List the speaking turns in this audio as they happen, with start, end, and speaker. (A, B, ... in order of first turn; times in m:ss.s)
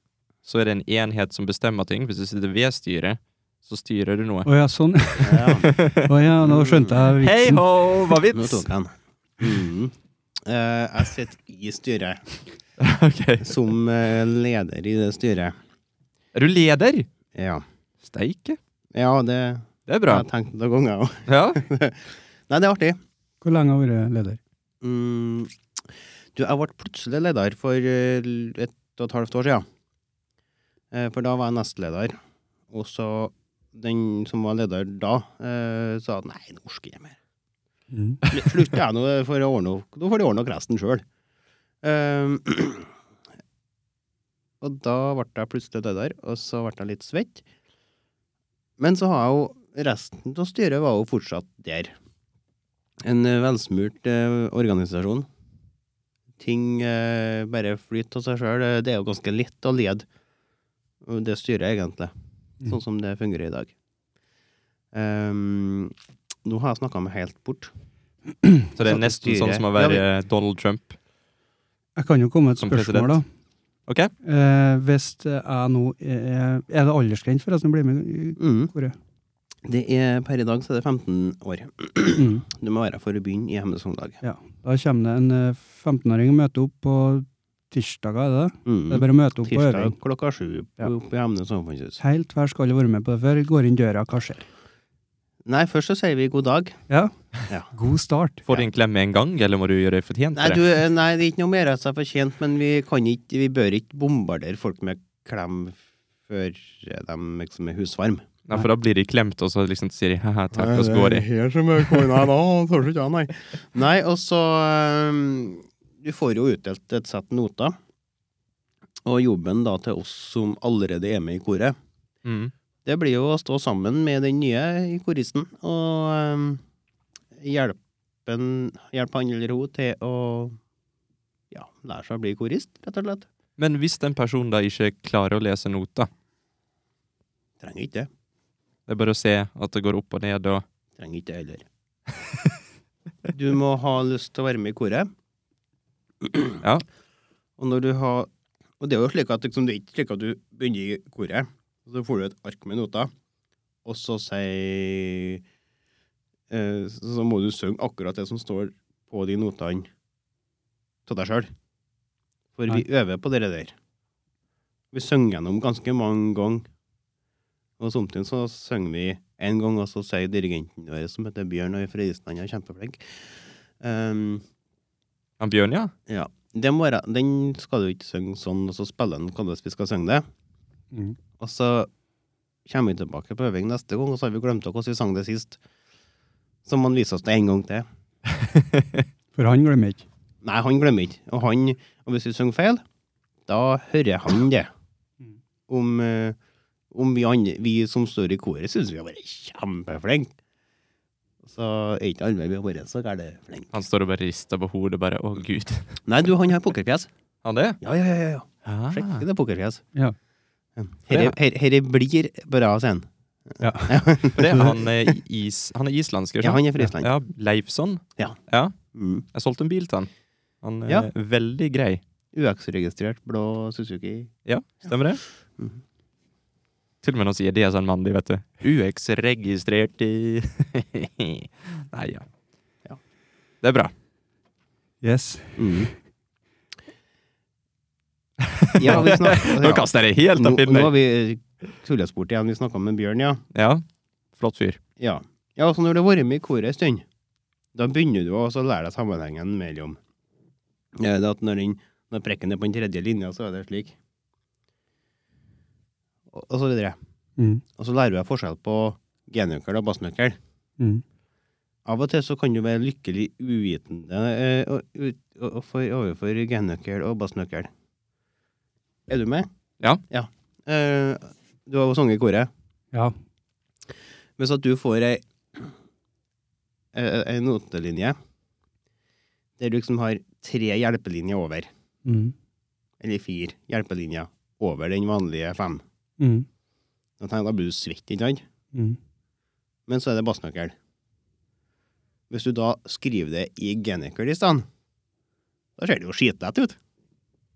0:00.4-0:04.5 A
0:04.5-0:07.6 B
0:05.2-0:05.7 C
0:05.6-0:06.1 A
0:06.4-0:07.1 C
0:07.2-0:08.7 A
0:08.2-0:12.2 C
0:12.8-0:13.6 A
0:13.4-0:15.6 C
0:16.4-0:17.1 A
0:17.4-0:17.6 C
0:18.0-0:18.6 A
0:18.9-0:23.0 C
0:19.9-0:20.2 A
0:21.3-0:21.6 A
0:23.4-0:24.4 B
0:24.8-0:25.5 C
0:26.4-0:29.6 C
0:30.9-0:32.2 C
0:32.7-0:37.2 C
0:37.9-0:38.2 B
0:38.3-0:41.0 C
0:41.8-0:42.9 C
0:44.6-0:47.4 C
0:48.8-0:51.9 C
0:53.0-0:55.3 C
0:56.4-1:00.1 C
1:01.0-1:02.1 C
1:02.6-1:03.7 C
1:04.9-1:07.7 C
1:08.4-1:08.7 B
1:08.8-1:11.0 A
1:08.9-1:10.0 C
1:12.0-1:13.2 B
1:12.6-1:13.2 A
1:13.9-1:14.1 A
1:14.2-1:19.0 B
1:18.4-1:18.7 C
1:19.6-1:24.2 C
1:22.2-1:22.4 B
1:24.2-1:30.0 B
1:28.6-1:32.0 C
1:32.0-1:34.4 B
1:35.4-1:36.8 C
1:37.7-1:38.4 B
1:38.5-1:40.6 A
1:40.4-1:48.3 C
1:48.5-1:51.3 A
1:50.5-1:57.8 C
1:59.0-2:01.8 C
2:02.2-2:02.5 A
2:02.9-2:06.6 C
2:07.4-2:10.6 C
2:11.5-2:13.3 C
2:13.6-2:16.1 A
2:17.6-2:18.1 C
2:18.9-2:20.6 A
2:21.0-2:21.7 C
2:23.3-2:25.1 C
2:26.2-2:26.6 C
2:27.6-2:28.3 C
2:28.8-2:33.1 C
2:33.8-2:35.4 C
2:36.5-2:39.9 C
2:41.1-2:41.5 C
2:42.6-2:43.7 C
2:44.9-2:46.7 C
2:47.8-2:53.2 C
2:53.8-2:54.4 C
2:55.4-2:55.9 A
2:56.1-3:00.2 C
3:00.9-3:01.2 B
3:01.4-3:01.9 C
3:02.7-3:05.6 C
3:06.6-3:07.9 C
3:08.3-3:09.0 A
3:09.4-3:10.1 B
3:10.4-3:12.8 C
3:13.5-3:14.7 C
3:15.7-3:16.4 C
3:16.9-3:20.3 C
3:21.4-3:23.7 C
3:23.7-3:26.0 A
3:26.1-3:27.1 C
3:27.4-3:27.8 A
3:27.8-3:29.8 C
3:28.6-3:29.2 A
3:30.8-3:34.8 C
3:31.1-3:31.4 A
3:33.6-3:34.0 B
3:34.3-3:38.8 A
3:36.4-3:37.1 C
3:38.9-3:39.3 C
3:39.3-3:40.1 A
3:40.6-3:42.0 A
3:42.3-3:44.3 C
3:44.5-3:45.2 A
3:47.0-3:52.3 A
3:53.6-3:53.9 A
3:55.0-3:55.9 B
3:55.6-3:55.9 C
3:58.4-4:00.9 A
3:58.8-4:03.4 C
4:03.5-4:03.8 A
4:04.4-4:04.8 A
4:05.0-4:07.0 C
4:07.8-4:10.0 C
4:11.0-4:14.0 C
4:16.3-4:17.0 C
4:17.4-4:17.6 B
4:17.8-4:20.4 C
4:21.8-4:27.7 C
4:29.1-4:29.5 C
4:30.1-4:32.5 C
4:34.4-4:35.7 C
4:36.9-4:38.2 C
4:39.6-4:41.7 C
4:42.0-4:42.3 B
4:43.0-4:45.8 C
4:46.2-4:46.5 B
4:47.2-4:48.4 C
4:48.7-4:49.0 B
4:49.9-4:50.8 C
4:52.3-4:54.7 C
4:55.8-4:56.8 C